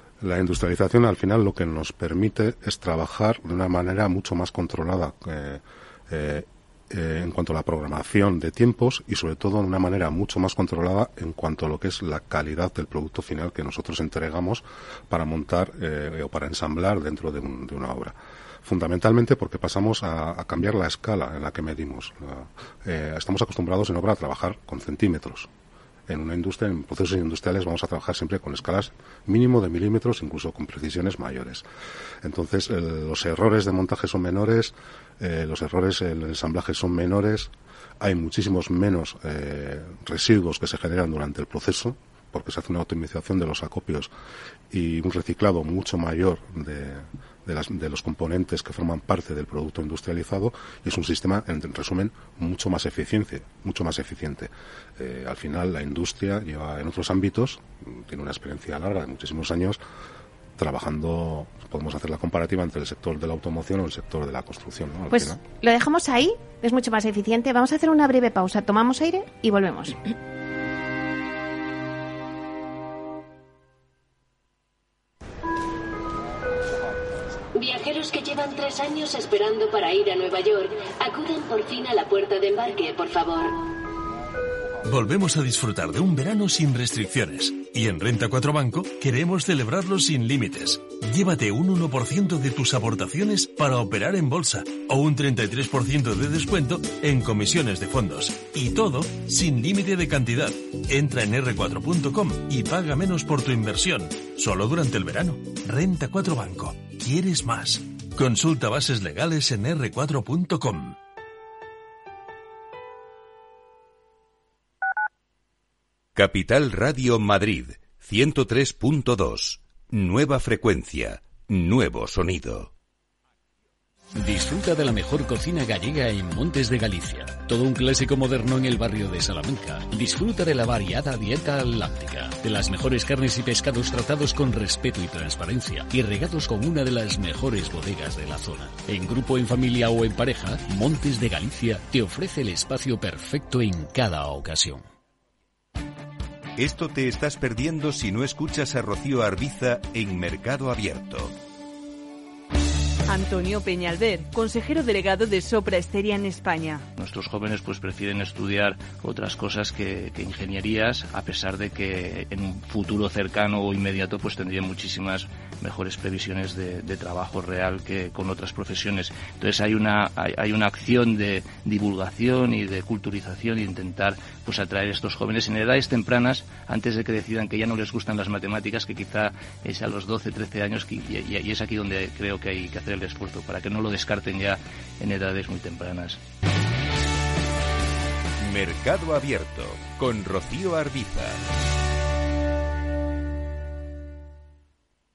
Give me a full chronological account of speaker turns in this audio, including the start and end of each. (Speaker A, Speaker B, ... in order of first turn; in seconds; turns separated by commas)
Speaker A: 0.2-25.5, Speaker A: 26.1-31.6, Speaker A: 32.2-44.1, Speaker A: 44.7-59.8, Speaker A: 60.6-65.4, Speaker B: 65.1-70.0, Speaker C: 77.5-83.6, Speaker D: 84.8-111.0, Speaker E: 116.2-122.7, Speaker F: 124.2-144.8, Speaker E: 146.6-151.3, Speaker G: 153.1-156.8, Speaker H: 157.0-186.2, Speaker E: 188.4-191.4